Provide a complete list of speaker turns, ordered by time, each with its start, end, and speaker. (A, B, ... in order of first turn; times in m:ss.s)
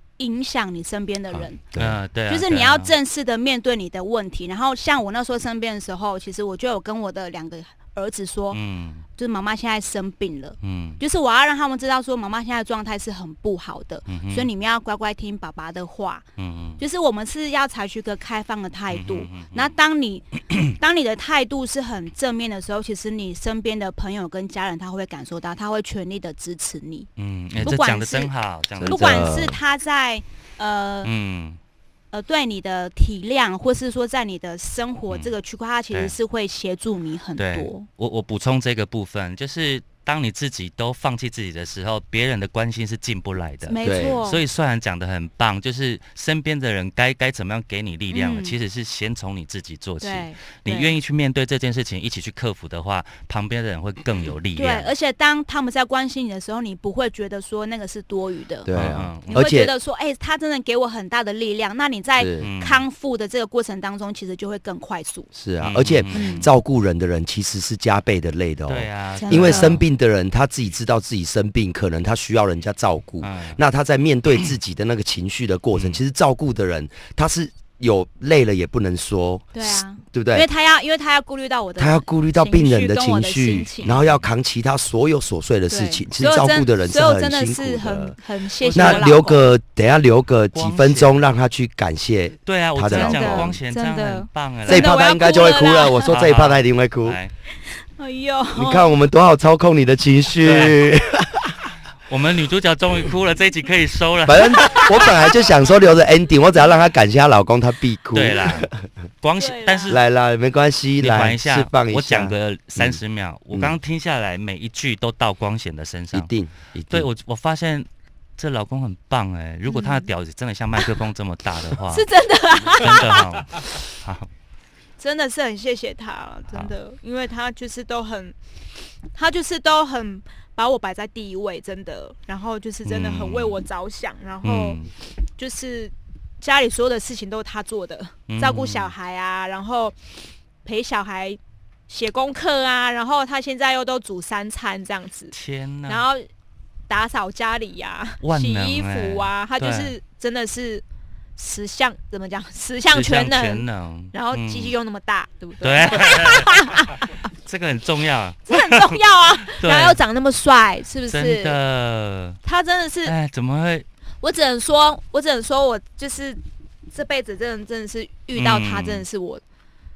0:00.2-0:01.6 A
0:01.3-0:02.0 B
0:01.8-0:03.0 C
0:02.3-0:08.6 A
0:08.5-0:09.0 C
0:09.2-0:16.3 A
0:10.6-0:11.0 C
0:14.1-0:14.5 C
0:16.4-0:16.8 C
0:16.8-0:27.1 A
0:18.9-0:19.7 C
0:27.2-0:29.5 C
0:27.6-0:28.3 A
0:28.8-0:29.6 B
0:28.8-0:31.1 A
0:31.0-0:31.6 C
0:32.1-0:37.9 A
0:35.9-0:36.2 C
0:37.4-0:54.9 C
0:43.7-0:44.4 A
0:43.8-0:44.2 B
0:48.1-0:48.6 A
0:50.0-0:50.9 A
0:54.6-0:58.7 A
0:58.6-0:59.7 B
0:58.7-0:59.4 C
0:59.3-1:05.3 A
1:02.2-1:02.5 B
1:02.4-1:02.9 C
1:05.3-1:20.5 B
1:05.6-1:06.5 C
1:06.1-1:06.5 A
1:08.7-1:09.8 C
1:09.2-1:09.8 A
1:13.2-1:13.6 C
1:19.5-1:24.0 A
1:21.8-1:28.2 B
1:23.8-1:24.3 C
1:25.7-1:29.5 A
1:28.6-1:29.3 C
1:28.7-1:33.6 B
1:30.5-1:31.1 C
1:32.5-1:35.1 C
1:32.9-1:36.2 A
1:34.7-1:37.2 B
1:36.1-1:37.3 C
1:38.0-1:38.9 A
1:38.6-1:41.5 B
1:40.4-1:40.9 C
1:42.1-1:45.0 C
1:44.2-1:48.9 B
1:44.6-1:45.3 A
1:48.1-1:48.7 C
1:49.2-1:50.0 C
1:49.4-1:50.0 A
1:49.9-1:53.7 B
1:51.0-1:56.3 C
1:56.1-1:57.1 B
1:56.9-1:57.9 C
1:58.4-2:02.1 C
1:59.7-2:00.1 A
2:01.9-2:03.4 A
2:02.7-2:04.3 C
2:05.0-2:08.4 A
2:09.1-2:14.8 A
2:12.9-2:13.6 C
2:14.4-2:14.9 C
2:15.4-2:20.0 A
2:18.3-2:18.9 C
2:20.6-2:25.3 A
2:25.3-2:26.1 C
2:25.9-2:26.3 A
2:26.9-2:30.8 A
2:28.2-2:30.0 C
2:31.4-2:37.2 A
2:32.9-2:34.7 C
2:35.6-2:38.8 C
2:38.5-2:41.6 A
2:39.5-2:40.0 C
2:41.1-2:42.4 C
2:42.4-2:43.1 A
2:43.0-2:43.9 C
2:44.2-2:49.4 A
2:48.4-2:49.0 C